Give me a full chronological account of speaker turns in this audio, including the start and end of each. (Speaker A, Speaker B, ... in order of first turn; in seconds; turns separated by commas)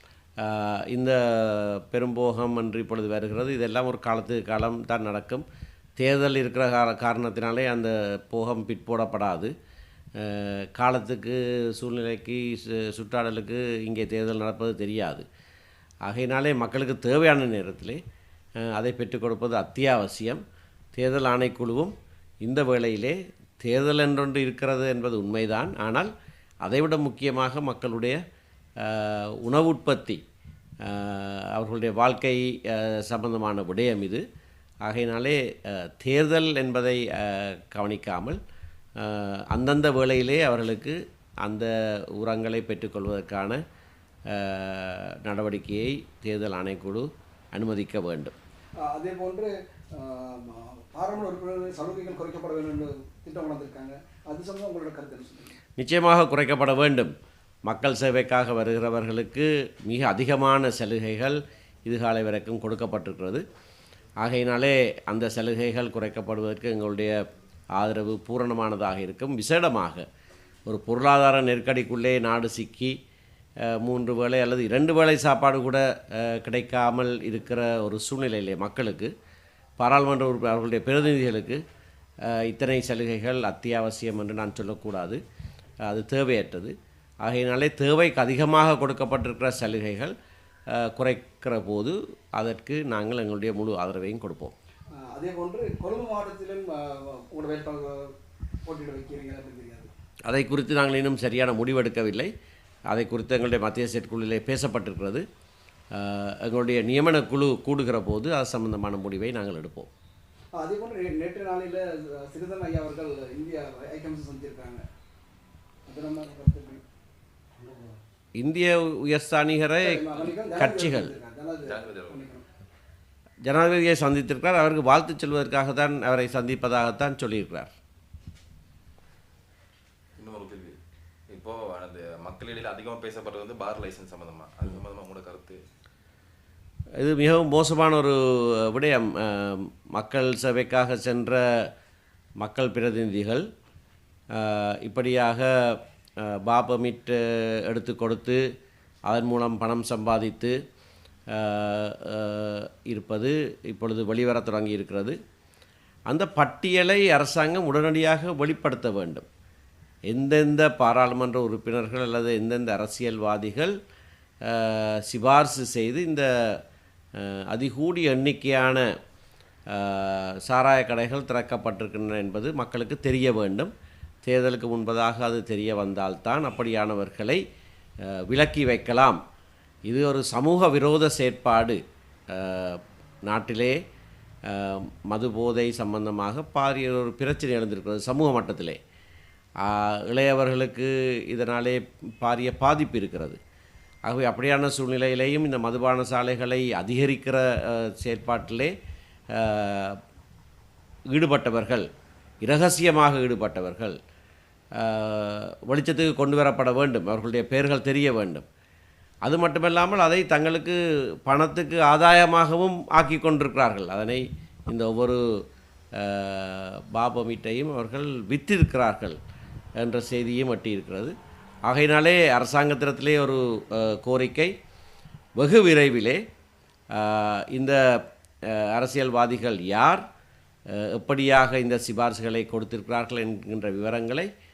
Speaker A: 0.4-5.4, Speaker A: 6.0-9.5, Speaker A: 10.2-15.2, Speaker A: 16.1-18.0, Speaker A: 18.6-20.4, Speaker A: 20.9-26.1, Speaker A: 26.6-28.2, Speaker A: 28.8-30.2, Speaker A: 30.8-34.2, Speaker A: 34.9-38.4, Speaker A: 39.0-43.6, Speaker A: 44.3-48.3, Speaker B: 48.9-55.5, Speaker A: 55.8-57.1, Speaker A: 57.7-63.4, Speaker A: 64.2-67.2, Speaker A: 67.8-70.0, Speaker A: 70.7-73.0, Speaker A: 73.6-79.1, Speaker A: 79.8-81.6, Speaker A: 82.2-85.2, Speaker A: 85.8-90.1, Speaker A: 90.7-94.5, Speaker B: 95.1-98.1, Speaker B: 98.7-99.9, Speaker A: 100.3-102.3, Speaker A: 102.9-105.2, Speaker A: 105.9-109.9, Speaker B: 110.6-114.8, Speaker B: 115.9-116.8, Speaker B: 117.6-118.0, Speaker A: 118.4-121.1, Speaker B: 119.8-122.5, Speaker C: 121.6-122.2, Speaker A: 123.5-127.7, Speaker C: 130.2-130.8, Speaker C: 131.3-135.6, Speaker A: 137.0-141.7, Speaker A: 142.4-143.4, Speaker A: 144.3-148.4, Speaker A: 149.1-150.6, Speaker A: 151.3-155.2, Speaker A: 156.1-159.2, Speaker A: 160.1-163.7, Speaker A: 164.4-166.6, Speaker A: 167.2-168.8, Speaker A: 169.7-173.7, Speaker A: 174.2-177.4, Speaker A: 178.0-179.2, Speaker A: 179.9-183.8, Speaker A: 184.4-188.8, Speaker A: 189.6-193.4, Speaker A: 194.1-198.7, Speaker A: 199.3-200.0, Speaker A: 201.1-201.9, Speaker A: 202.4-204.0, Speaker A: 204.8-208.4, Speaker A: 209.2-215.2, Speaker A: 215.9-219.2, Speaker A: 219.8-221.1, Speaker A: 221.7-224.5, Speaker A: 225.4-226.2, Speaker A: 226.9-227.8, Speaker A: 228.5-230.0, Speaker A: 230.7-234.3